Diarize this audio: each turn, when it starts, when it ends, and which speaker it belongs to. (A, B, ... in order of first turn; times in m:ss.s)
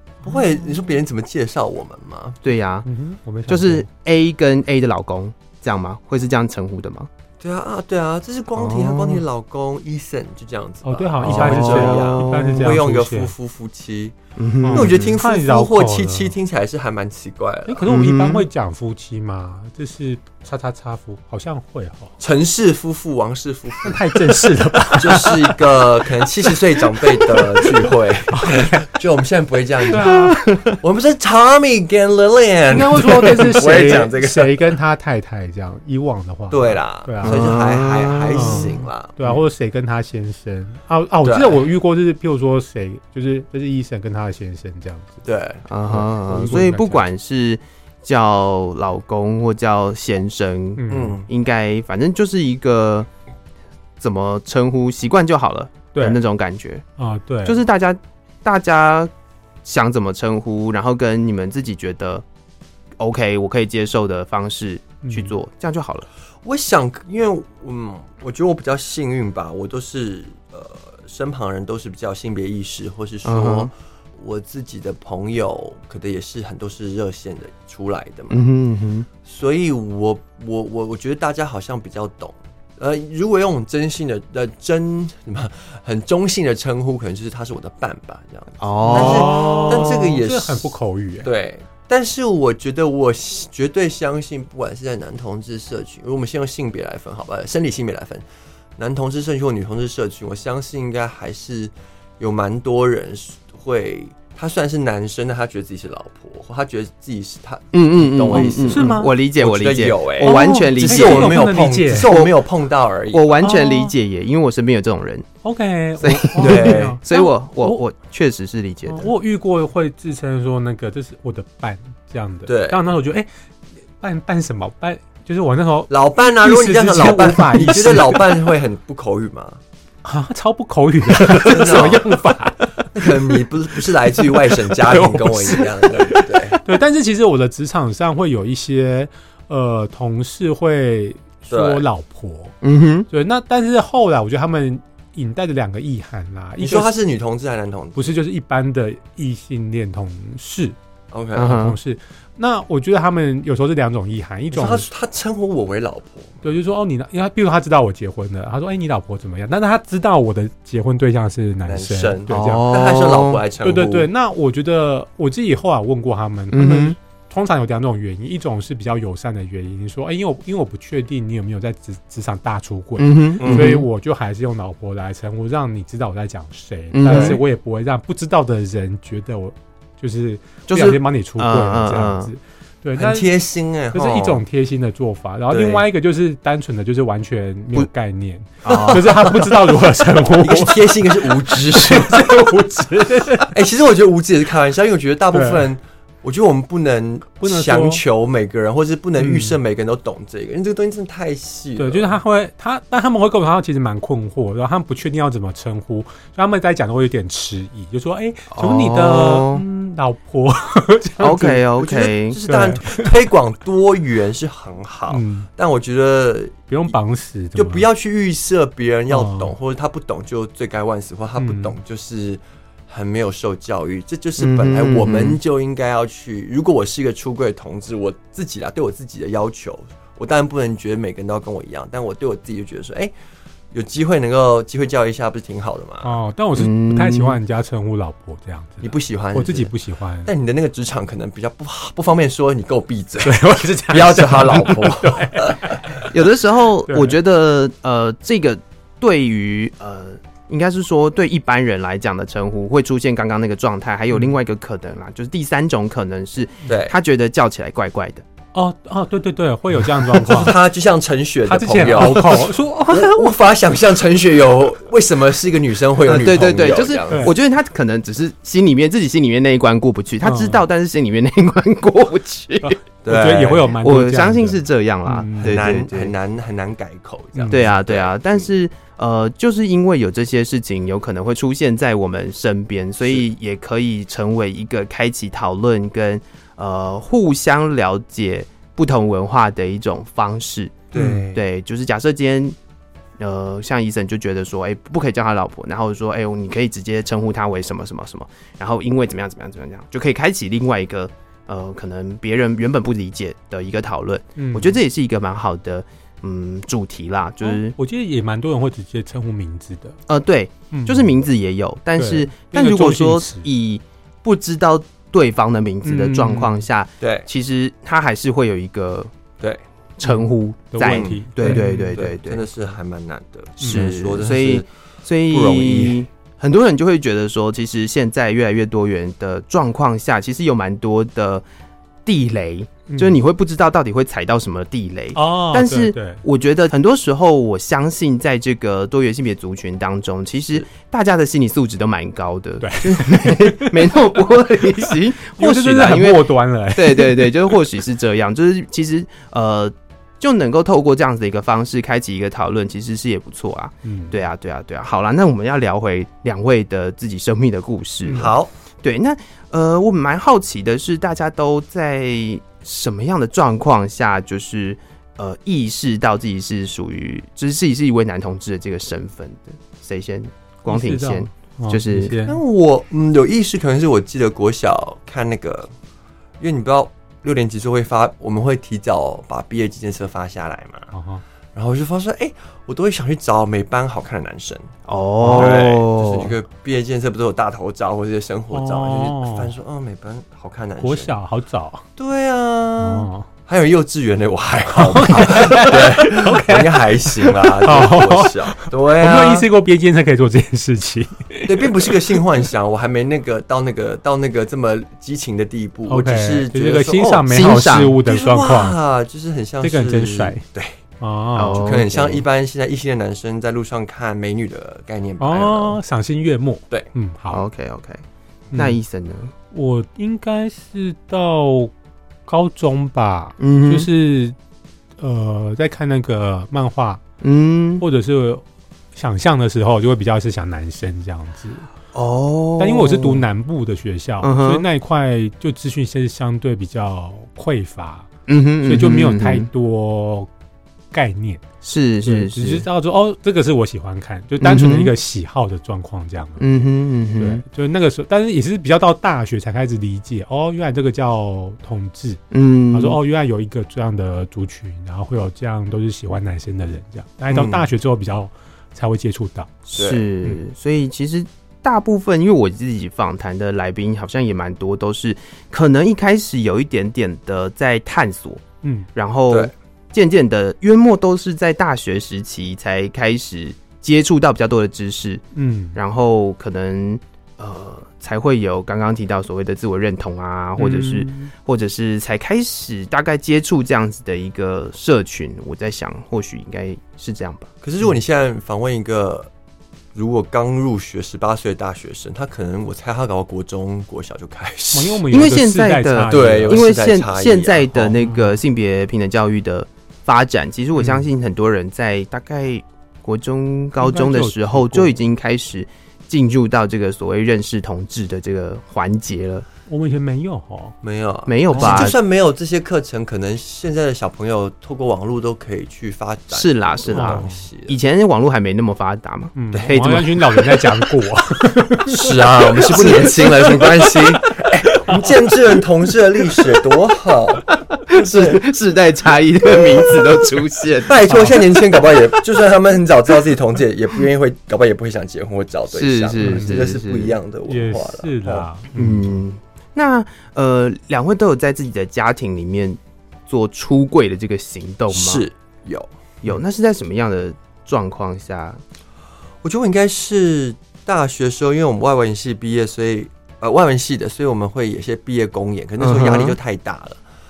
0:00.2-0:02.4 A
0:02.4-0:02.9 B
0:02.9-0:03.9 C
0:03.5-0:07.1 B
0:07.4-0:14.1 A
0:08.6-0:09.2 B
0:10.8-0:13.3 C
0:11.2-0:12.8 B
0:14.4-0:15.2 B
0:14.6-0:16.4 C
0:14.7-0:17.9 A
0:17.7-0:22.1 C
0:17.9-0:18.5 B
0:22.2-0:30.1 A
0:23.8-0:25.6 C
0:28.3-0:28.9 C
0:29.9-0:30.4 C
0:30.0-0:30.8 B
0:30.8-0:34.8 A
0:32.7-0:37.4 C
0:36.5-0:39.4 A
0:37.2-0:38.8 B
0:38.4-0:45.2 C
0:41.2-0:41.6 A
0:45.2-0:45.6 A
0:45.7-0:53.1 B
0:45.9-0:47.0 C
0:50.8-0:51.2 C
0:50.9-0:51.3 A
0:54.0-0:56.8 B
0:57.0-0:57.6 C
0:57.4-0:59.1 B
0:59.6-1:02.2 B
1:03.0-1:06.1 B
1:05.0-1:05.4 C
1:06.4-1:18.4 A
1:13.2-1:13.7 B
1:18.3-1:19.1 B
1:19.2-1:38.2 A
1:28.6-1:30.0 B
1:28.8-1:31.3 C
1:38.8-1:53.2 A
1:47.7-1:52.4 B
1:48.3-1:49.1 C
1:50.2-1:52.1 C
1:53.1-1:55.3 B
1:53.4-1:53.9 C
1:55.4-1:57.8 C
1:56.0-1:59.1 B
1:56.4-1:57.0 A
1:58.9-2:03.3 C
2:02.5-2:02.8 A
2:04.0-2:08.3 C
2:05.9-2:09.6 A
2:10.0-2:13.1 C
2:11.2-2:12.2 A
2:12.8-2:16.6 A
2:14.6-2:22.6 C
2:21.5-2:21.8 A
2:22.6-2:23.1 B
2:23.1-2:26.9 C
2:26.6-2:28.1 A
2:28.0-2:30.8 C
2:31.1-2:31.6 A
2:31.4-2:31.8 B
2:31.4-2:34.9 C
2:34.5-2:36.4 A
2:36.4-2:42.7 C
2:41.7-2:44.1 A
2:42.3-2:43.4 B
2:43.6-3:03.3 C
2:46.5-2:47.0 B
2:53.0-2:53.9 B
2:53.4-2:53.8 A
2:56.9-2:57.4 B
2:57.1-2:57.4 A
3:00.7-3:02.3 B
3:03.0-3:04.4 A
3:03.9-3:13.5 C
3:05.5-3:05.8 A
3:08.6-3:09.3 B
3:08.7-3:09.7 A
3:10.4-3:12.5 A
3:13.5-3:22.2 A
3:15.3-3:15.7 C
3:17.4-3:18.0 C
3:19.2-3:19.6 C
3:21.8-3:31.6 C
3:28.5-3:29.6 B
3:31.2-3:32.4 B
3:31.8-3:36.7 A
3:32.4-3:33.1 C
3:35.1-3:35.5 C
3:36.7-3:37.9 C
3:37.6-3:53.1 A
3:39.1-3:39.5 C
3:41.4-3:41.8 C
3:44.4-3:45.4 B
3:53.7-3:56.1 A
3:56.0-4:00.3 C
3:56.6-3:57.4 B
3:58.8-3:59.7 A
4:00.3-4:05.8 A
4:03.2-4:06.1 C
4:06.1-4:18.2 B
4:06.9-4:07.2 C
4:16.7-4:16.9 A
4:18.5-4:20.6 C
4:20.1-4:27.3 A
4:21.5-4:23.3 C
4:26.1-4:32.8 B
4:30.2-4:30.6 C
4:32.6-4:35.7 C
4:33.0-4:33.8 A
4:33.8-4:36.1 B
4:35.4-4:38.5 A
4:37.4-4:37.7 C
4:37.5-4:52.6 B
4:50.9-4:51.4 A
4:51.0-4:51.3 C
4:53.2-5:07.8 B
5:04.4-5:04.8 C
5:07.4-5:10.0 C
5:10.1-5:19.1 B
5:10.7-5:11.1 C
5:12.0-5:13.5 C
5:15.8-5:16.6 C
5:17.0-5:17.3 A
5:20.0-5:22.5 B
5:20.0-5:22.0 C
5:20.8-5:24.7 A
5:23.6-5:31.4 B
5:23.6-5:23.9 C
5:25.3-5:26.0 A
5:32.1-6:12.2 B
5:32.9-5:33.2 C
5:35.2-5:36.2 C
5:42.6-5:47.4 C
5:53.8-5:54.2 C
5:58.1-5:58.3 C
5:58.1-5:58.5 A
6:10.6-6:12.4 C
6:12.3-6:15.7 A
6:16.4-6:20.9 A
6:20.9-6:21.2 C
6:21.6-6:24.7 A
6:24.9-6:26.3 B
6:25.2-6:25.6 C
6:25.3-6:31.2 A
6:28.5-6:29.5 C
6:30.8-6:31.8 C
6:32.0-6:39.5 A
6:32.8-6:33.3 C
6:34.7-6:42.2 C
6:41.4-6:50.8 A
6:45.9-6:48.8 C
6:47.3-6:48.0 B
6:49.6-6:50.4 C
6:51.0-6:51.6 C
6:51.4-6:52.2 B
6:51.5-6:55.8 A
6:55.2-6:57.4 C
6:57.3-6:58.0 B
6:58.5-6:58.8 C
6:58.5-6:59.3 B
6:59.5-7:01.7 C
7:02.3-7:04.4 C
7:03.4-7:03.9 B
7:05.0-7:07.0 C
7:07.2-7:07.8 B
7:07.8-7:08.4 C
7:08.9-7:11.7 C
7:11.9-7:13.2 B
7:12.6-7:18.1 C
7:14.2-7:14.6 B
7:18.3-7:19.5 B
7:18.6-7:20.3 C
7:20.9-7:21.4 C
7:21.6-7:22.7 B
7:22.0-7:26.4 C
7:24.4-7:24.9 B
7:26.4-7:27.4 B
7:27.2-7:32.2 C
7:32.3-7:33.0 B
7:32.7-7:39.5 C
7:37.3-7:37.6 A
7:39.7-7:48.4 B
7:39.8-7:40.0 A
7:48.6-7:48.9 C
7:48.9-7:55.2 B
7:55.3-7:55.8 C
7:55.8-8:07.5 B
8:00.6-8:01.3 C
8:07.6-8:09.3 A
8:09.9-8:15.0 A
8:14.7-8:16.6 C
8:15.1-8:29.5 B
8:16.1-8:18.0 A
8:18.0-8:18.4 C
8:20.8-8:21.0 C
8:23.8-8:24.9 C
8:29.7-8:30.8 C
8:30.8-8:37.8 A
8:31.3-8:32.0 B
8:31.5-8:31.9 C
8:36.3-8:40.2 B
8:36.9-8:37.4 C
8:39.4-8:42.2 C
8:41.9-8:48.4 A
8:42.7-8:43.7 B
8:42.7-8:45.1 C
8:47.9-8:51.8 B
8:50.8-8:58.5 A
8:55.7-8:57.2 B
8:56.2-8:56.6 C
8:57.5-8:59.2 C
8:58.8-9:05.2 B
9:04.9-9:05.9 A
9:06.2-9:08.6 B
9:09.4-9:17.0 A
9:15.8-9:16.4 B